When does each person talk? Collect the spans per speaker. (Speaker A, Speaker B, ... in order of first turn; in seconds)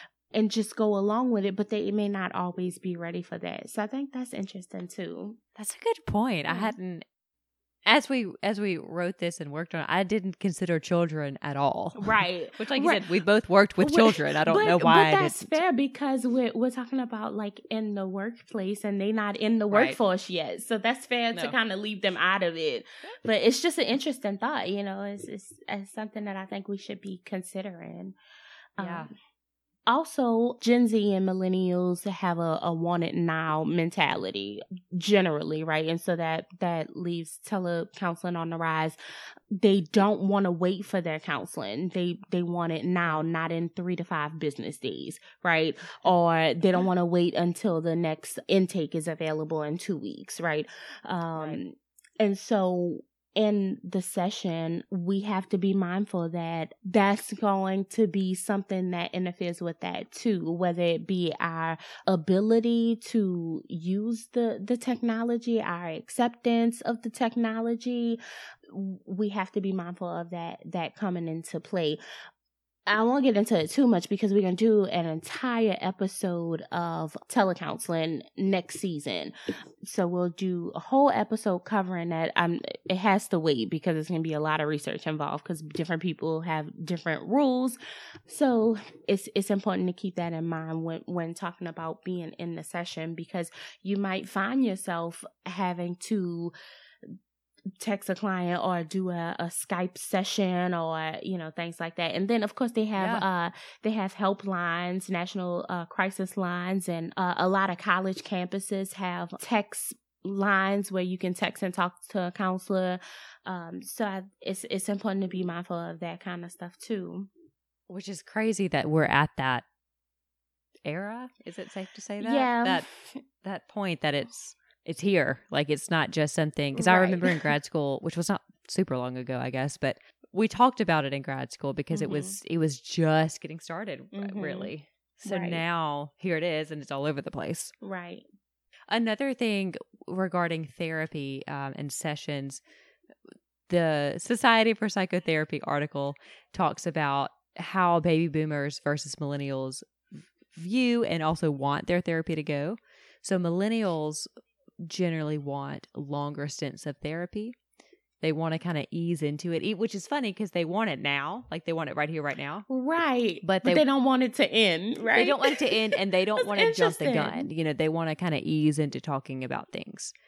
Speaker A: 0.3-5.4, 6.5-6.7, 12.0-13.0, 13.8-28.1, 28.8-29.1, 29.9-39.0, 39.5-72.0, 72.9-96.5, 97.8-117.3, 122.2-123.2, 126.7-127.5, 131.9-132.4, 134.1-134.7, 135.2-135.6, 137.8-138.2, 162.7-167.5
Speaker B: 5.5-7.0, 7.8-15.6, 19.7-20.0, 28.8-29.1, 51.3-51.6, 103.0-103.2, 117.9-119.6, 120.8-122.9, 123.4-137.7, 138.9-142.6, 143.7-149.9, 150.5-154.3, 154.8-157.6, 158.2-162.6, 163.4-163.8, 165.1-170.1